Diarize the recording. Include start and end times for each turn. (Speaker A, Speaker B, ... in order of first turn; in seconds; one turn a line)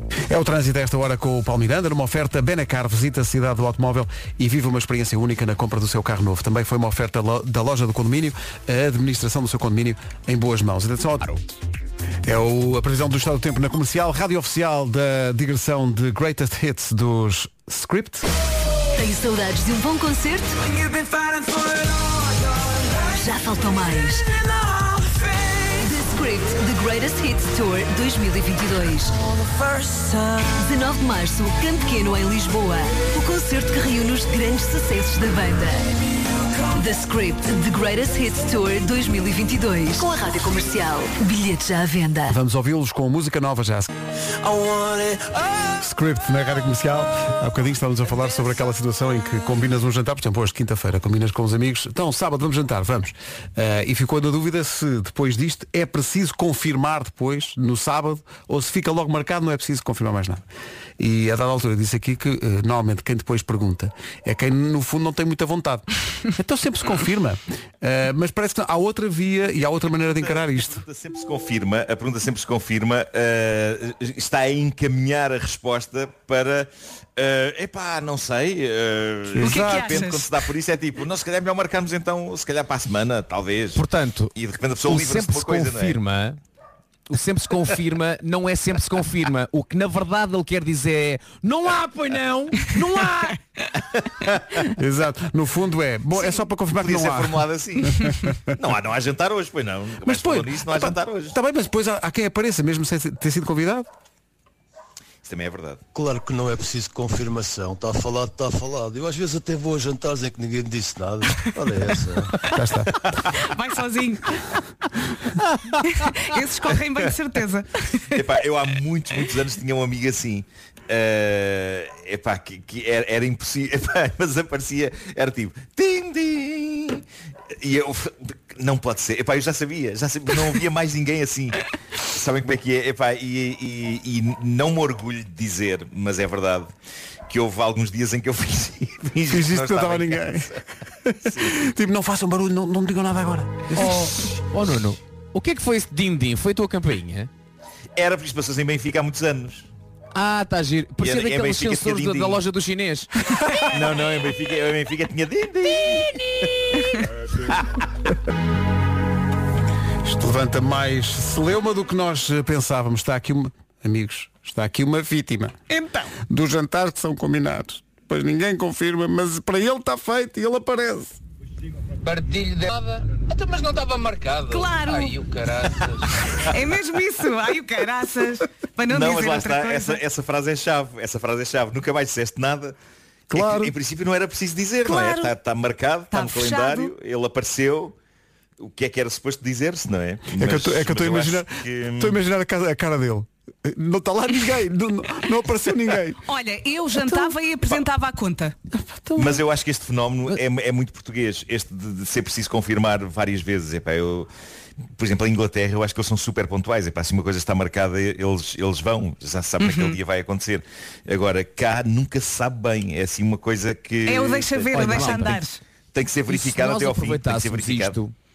Speaker A: 0.3-11.4
Speaker A: 12.2-18.3
Speaker B: 18.9-20.9
Speaker B: 23.0-24.4
Speaker B: 25.5-35.9
Speaker B: 36.7-42.4
Speaker A: 42.3-43.9
Speaker C: 44.4-45.4
Speaker A: 45.8-60.5
Speaker A: 61.0-70.8
Speaker D: 70.2-86.0
Speaker A: 79.3-80.0
Speaker E: 79.4-80.3
Speaker F: 83.7-86.4
Speaker F: 87.1-93.4
Speaker D: 93.9-94.4
Speaker A: 94.8-98.3
Speaker D: 96.8-101.3
Speaker A: 100.0-103.9
Speaker D: 105.2-105.8
Speaker C: 105.9-112.4
Speaker A: 112.5-112.9
Speaker E: 113.4-114.4
Speaker E: 115.8-118.2
Speaker D: 118.1-127.0
Speaker D: 127.6-136.7
Speaker D: 137.3-140.6
Speaker A: 139.3-143.9
Speaker D: 141.2-141.6
Speaker F: 143.7-147.3
Speaker D: 147.9-149.7
Speaker F: 150.1-153.1
Speaker D: 151.0-152.4
Speaker D: 153.7-157.7
Speaker A: 160.0-165.5
Speaker E: 165.7-166.1
Speaker A: 166.2-171.2
Speaker C: 172.0-176.2
Speaker E: 174.5-175.1
Speaker E: 176.5-180.0
Speaker D: 178.9-182.8
Speaker A: 183.3-183.7
Speaker D: 183.3-187.9
Speaker E: 184.8-185.3
Speaker E: 186.1-186.9
Speaker D: 188.6-192.2
Speaker A: 190.3-196.2
Speaker E: 196.2-198.5
Speaker A: 197.0-197.3
Speaker A: 198.7-199.4
Speaker D: 199.2-204.3
Speaker D: 205.0-215.3
Speaker E: 209.6-210.0
Speaker E: 214.1-215.6
Speaker F: 214.7-215.4
Speaker D: 215.9-218.0
Speaker F: 216.3-218.1